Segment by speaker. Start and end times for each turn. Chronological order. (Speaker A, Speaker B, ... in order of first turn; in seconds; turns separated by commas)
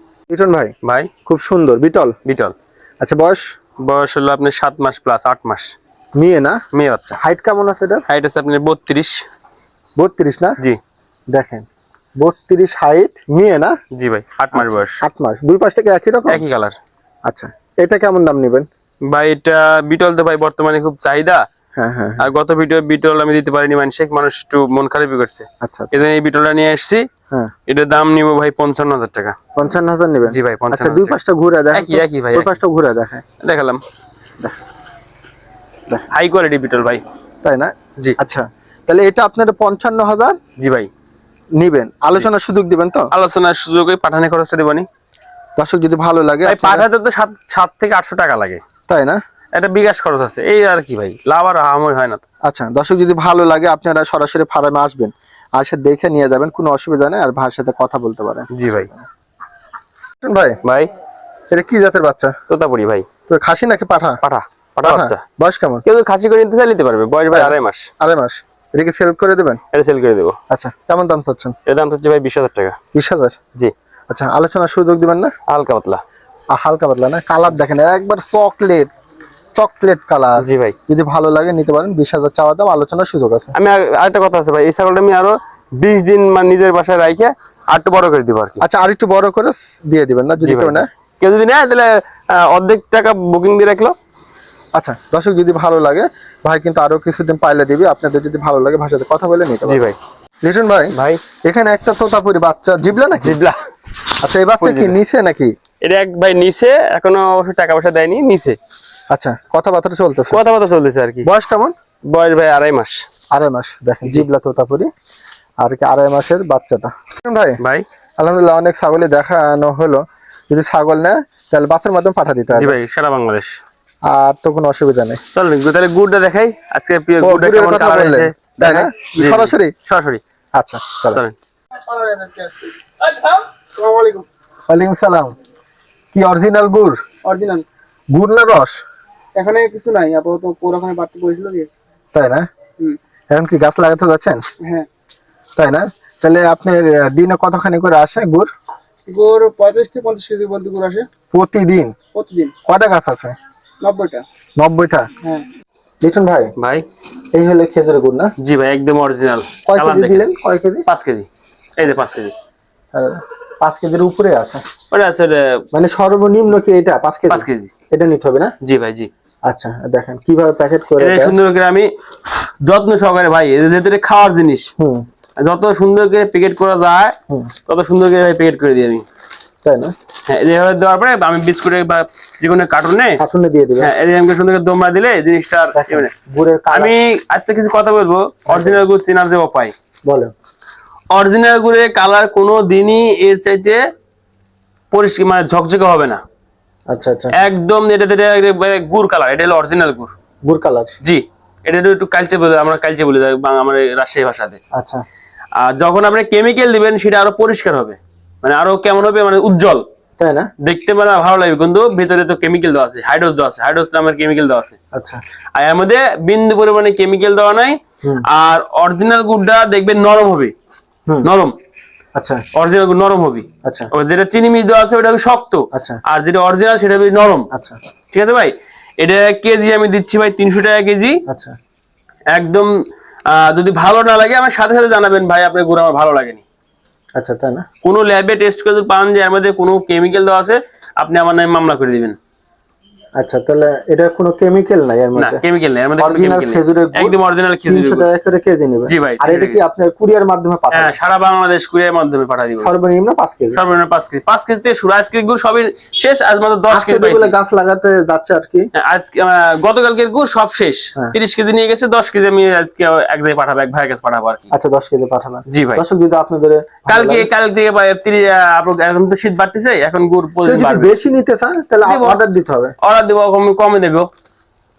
Speaker A: 0.3-0.7, Speaker B: 0.8-1.1, Speaker A: 1.3-2.2, Speaker B: 2.3-2.5, Speaker A: 3.0-3.4, Speaker B: 3.8-5.7, Speaker A: 6.2-6.6, Speaker B: 6.7-7.2, Speaker A: 7.2-8.1, Speaker B: 8.1-9.2, Speaker A: 10.0-10.6, Speaker A: 11.3-11.7, Speaker A: 12.2-13.8, Speaker B: 13.9-15.0, Speaker A: 14.5-16.4, Speaker B: 16.3-16.8, Speaker A: 17.3-18.7, Speaker B: 19.1-21.4, Speaker A: 21.8-22.3, Speaker B: 22.2-27.0, Speaker A: 25.6-25.9, Speaker B: 27.7-29.4, Speaker A: 29.6-33.2, Speaker B: 30.3-31.2, Speaker B: 31.7-32.6, Speaker B: 33.4-33.8, Speaker B: 36.1-37.0, Speaker A: 37.4-40.4, Speaker B: 40.6-40.9, Speaker A: 41.6-43.1, Speaker B: 43.1-44.9, Speaker A: 45.6-46.9, Speaker B: 46.5-48.6, Speaker A: 48.9-49.2, Speaker B: 49.5-52.2, Speaker A: 52.5-59.0, Speaker B: 58.5-58.9, Speaker A: 60.2-60.6, Speaker A: 61.5-62.3, Speaker B: 62.5-63.1, Speaker A: 63.3-64.2, Speaker B: 64.2-65.2, Speaker A: 64.8-65.8, Speaker B: 65.9-67.9, Speaker A: 67.3-69.6, Speaker B: 69.7-70.4, Speaker A: 70.5-71.5, Speaker B: 71.7-72.8, Speaker A: 72.9-73.4, Speaker A: 74.1-75.3, Speaker B: 75.5-76.0, Speaker A: 76.5-78.9, Speaker A: 79.6-83.5, Speaker B: 80.4-80.8, Speaker B: 83.5-88.6, Speaker A: 88.6-90.9, Speaker B: 90.4-94.0, Speaker A: 94.8-99.8, Speaker B: 99.7-100.0, Speaker A: 100.4-103.4, Speaker B: 100.9-101.2, Speaker B: 103.2-103.6, Speaker A: 104.2-105.5, Speaker B: 104.6-105.0, Speaker B: 105.8-108.6, Speaker A: 109.1-110.4, Speaker B: 110.3-111.3, Speaker A: 111.2-111.7, Speaker B: 112.1-113.0, Speaker A: 113.3-114.9, Speaker A: 115.6-117.6, Speaker A: 118.2-122.8, Speaker B: 122.5-123.6, Speaker A: 124.1-125.2, Speaker B: 125.3-130.2, Speaker A: 127.2-129.7, Speaker A: 130.6-131.2, Speaker C: 131.8-134.3, Speaker A: 134.7-135.3, Speaker A: 136.1-137.0, Speaker C: 137.2-137.7, Speaker A: 138.1-138.8, Speaker C: 139.4-141.7, Speaker A: 142.1-142.5, Speaker A: 143.3-144.4, Speaker A: 145.6-148.5, Speaker C: 149.1-151.1, Speaker A: 151.3-151.9, Speaker C: 152.2-152.6, Speaker A: 152.7-153.3, Speaker C: 153.8-154.2, Speaker A: 154.6-155.1, Speaker A: 156.0-156.5, Speaker B: 156.6-156.8, Speaker A: 157.3-158.3, Speaker B: 158.4-160.3, Speaker A: 159.7-160.8, Speaker B: 160.9-161.3, Speaker B: 161.8-162.3, Speaker A: 162.9-164.6, Speaker B: 164.9-165.6, Speaker A: 165.7-168.5, Speaker B: 167.3-167.7, Speaker B: 168.6-169.1, Speaker A: 169.5-171.4, Speaker B: 171.0-174.7, Speaker A: 174.8-175.1, Speaker B: 175.4-177.2, Speaker B: 177.7-179.1, Speaker A: 179.6-179.9, Speaker B: 180.3-183.2, Speaker A: 183.2-183.9, Speaker B: 183.8-186.1, Speaker A: 185.8-186.9, Speaker B: 186.7-189.7, Speaker A: 188.5-188.9, Speaker A: 190.1-190.3, Speaker B: 191.1-193.8, Speaker B: 194.9-196.2, Speaker A: 196.9-197.4, Speaker B: 197.3-200.1, Speaker A: 200.4-201.0, Speaker B: 201.0-204.6, Speaker A: 204.7-205.0, Speaker B: 205.6-209.8, Speaker A: 210.2-210.5, Speaker B: 210.6-214.8, Speaker A: 214.9-215.2, Speaker B: 215.6-220.5, Speaker B: 221.2-221.5, Speaker A: 222.2-222.4, Speaker B: 222.6-227.5, Speaker A: 225.7-226.0, Speaker B: 228.1-231.2, Speaker A: 231.3-231.6, Speaker B: 232.3-232.7, Speaker B: 233.3-236.4, Speaker A: 237.2-237.7, Speaker B: 237.8-242.2, Speaker A: 243.2-245.4, Speaker B: 245.2-248.1, Speaker A: 246.0-251.0, Speaker B: 248.9-249.6, Speaker B: 250.7-252.7, Speaker A: 252.6-253.6, Speaker B: 253.5-257.4, Speaker A: 256.7-258.7, Speaker B: 258.8-264.5, Speaker A: 264.5-267.3, Speaker B: 265.5-265.8, Speaker B: 266.9-271.0, Speaker A: 270.5-272.7, Speaker B: 271.9-272.2, Speaker B: 272.8-274.1